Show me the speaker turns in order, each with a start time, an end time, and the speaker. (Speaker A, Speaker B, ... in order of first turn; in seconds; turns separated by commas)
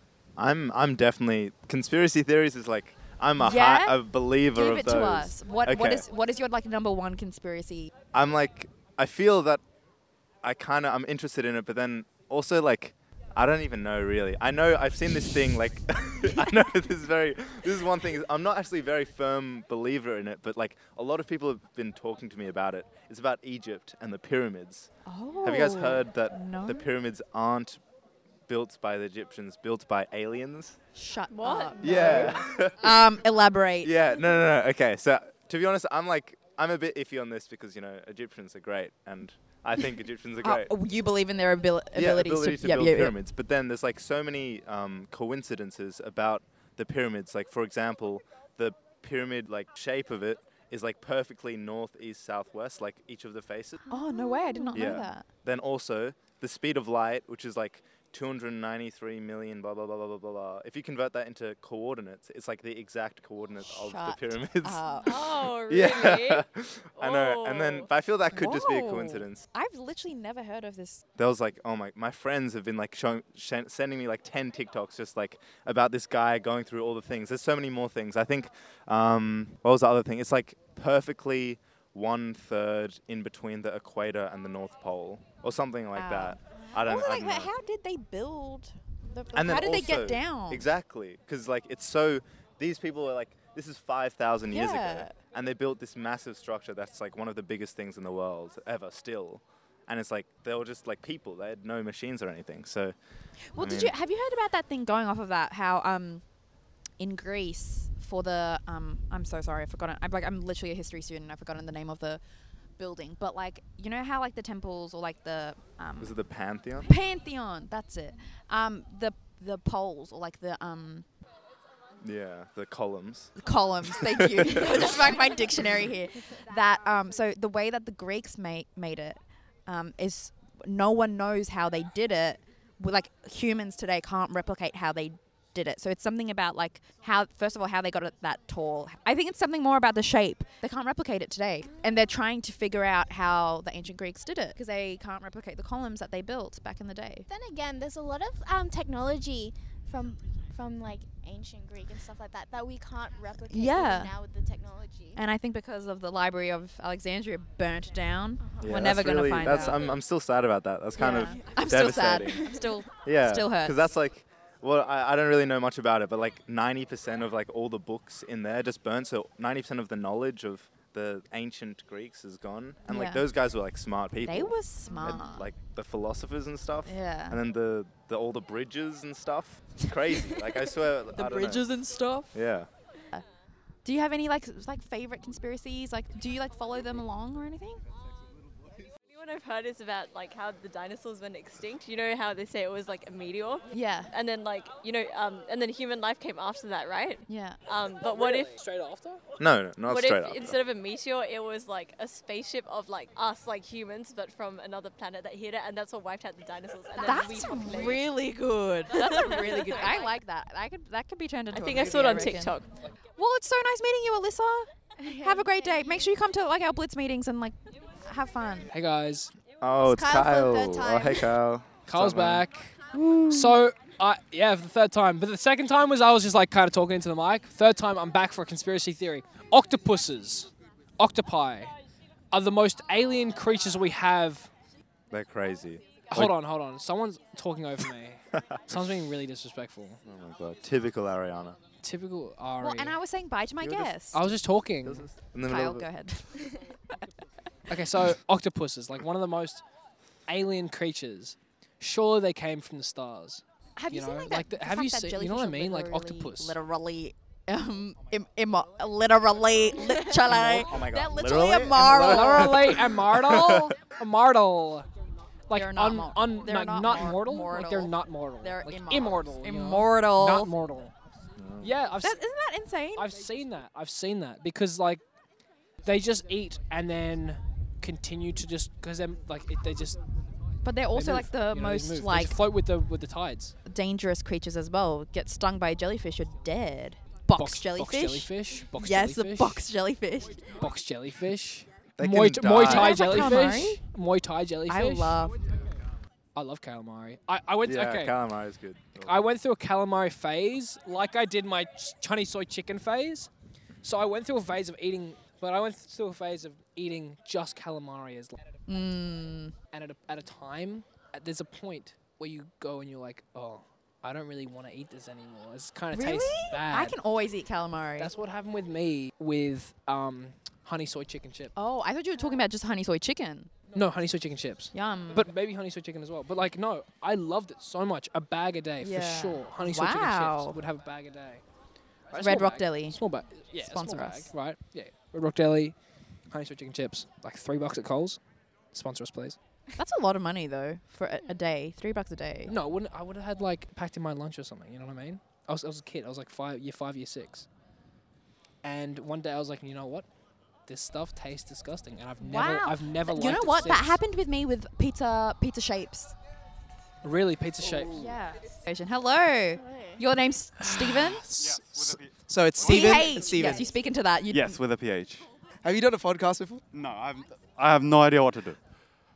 Speaker A: 0.3-6.0, Speaker B: 3.4-7.9, Speaker A: 8.1-9.6, Speaker A: 10.4-27.8, Speaker B: 25.0-26.9, Speaker A: 28.5-30.8, Speaker B: 30.9-34.0, Speaker C: 31.3-32.4, Speaker A: 31.8-33.0, Speaker A: 33.8-40.7, Speaker B: 40.4-43.1, Speaker A: 41.9-53.8, Speaker B: 53.9-55.3, Speaker A: 54.7-64.9, Speaker B: 63.6-65.3, Speaker C: 64.9-66.5, Speaker A: 65.5-69.4, Speaker C: 67.0-67.9, Speaker B: 68.3-71.0, Speaker A: 71.2-87.5, Speaker B: 85.9-90.7, Speaker A: 89.3-103.0, Speaker B: 94.5-95.2, Speaker A: 103.5-103.9, Speaker B: 103.5-106.2, Speaker B: 107.0-112.2, Speaker B: 112.8-116.2, Speaker A: 116.0-116.9, Speaker B: 116.8-121.0, Speaker A: 122.0-123.3, Speaker B: 123.4-147.3, Speaker A: 124.0-124.9, Speaker D: 147.3-155.2, Speaker B: 153.5-154.1, Speaker B: 155.2-159.9, Speaker A: 158.6-181.8, Speaker B: 160.9-163.8, Speaker B: 172.9-173.3, Speaker B: 174.2-175.5, Speaker B: 176.8-177.4, Speaker B: 181.2-182.3, Speaker A: 182.3-182.7, Speaker B: 183.8-187.8, Speaker C: 189.1-198.6, Speaker B: 193.7-194.1, Speaker B: 197.3-197.6, Speaker E: 198.0-199.2, Speaker A: 199.4-200.6, Speaker C: 199.8-208.1, Speaker B: 207.0-212.5, Speaker C: 208.9-210.1, Speaker C: 211.5-212.7, Speaker B: 213.2-218.7, Speaker D: 215.0-216.1, Speaker E: 218.7-219.3, Speaker A: 219.6-223.5, Speaker D: 219.9-221.2, Speaker E: 221.8-231.7, Speaker E: 232.3-234.5, Speaker A: 235.1-236.3, Speaker E: 236.1-240.0, Speaker A: 238.4-238.9, Speaker A: 240.0-241.6, Speaker E: 241.8-243.0, Speaker B: 242.6-244.2, Speaker E: 243.9-245.1, Speaker A: 244.8-245.9, Speaker B: 245.4-246.6, Speaker E: 247.7-249.6, Speaker E: 250.3-256.6, Speaker B: 253.8-262.7, Speaker A: 260.1-263.7, Speaker E: 261.8-264.9, Speaker E: 265.5-270.9, Speaker B: 265.5-270.5, Speaker A: 271.4-271.8, Speaker E: 271.6-272.2, Speaker B: 272.0-273.1, Speaker E: 272.9-275.0, Speaker E: 275.8-280.0, Speaker B: 280.6-282.4, Speaker E: 280.9-283.5, Speaker B: 283.6-290.5, Speaker E: 287.3-289.6, Speaker E: 290.6-295.2, Speaker A: 292.0-293.2, Speaker B: 292.6-293.8, Speaker B: 294.7-295.4, Speaker E: 296.3-298.1, Speaker A: 297.6-299.2, Speaker E: 299.0-303.3, Speaker E: 303.8-308.4, Speaker B: 308.7-309.5, Speaker E: 309.7-317.0, Speaker B: 315.9-318.1, Speaker E: 318.0-321.5, Speaker B: 321.6-323.5, Speaker E: 323.7-331.4, Speaker B: 324.7-325.3, Speaker B: 328.8-330.6, Speaker E: 332.1-335.8, Speaker B: 332.1-333.0, Speaker B: 333.6-334.3, Speaker E: 336.3-338.2, Speaker E: 338.7-339.4, Speaker B: 339.8-342.5, Speaker E: 342.4-347.4, Speaker E: 348.6-350.1, Speaker E: 350.6-354.0, Speaker B: 352.2-356.1, Speaker E: 357.0-358.1, Speaker B: 357.9-361.2, Speaker D: 359.5-360.0, Speaker F: 360.6-363.7, Speaker G: 361.3-363.6, Speaker B: 362.6-364.6, Speaker G: 364.3-365.3, Speaker F: 365.6-366.6, Speaker G: 366.7-368.6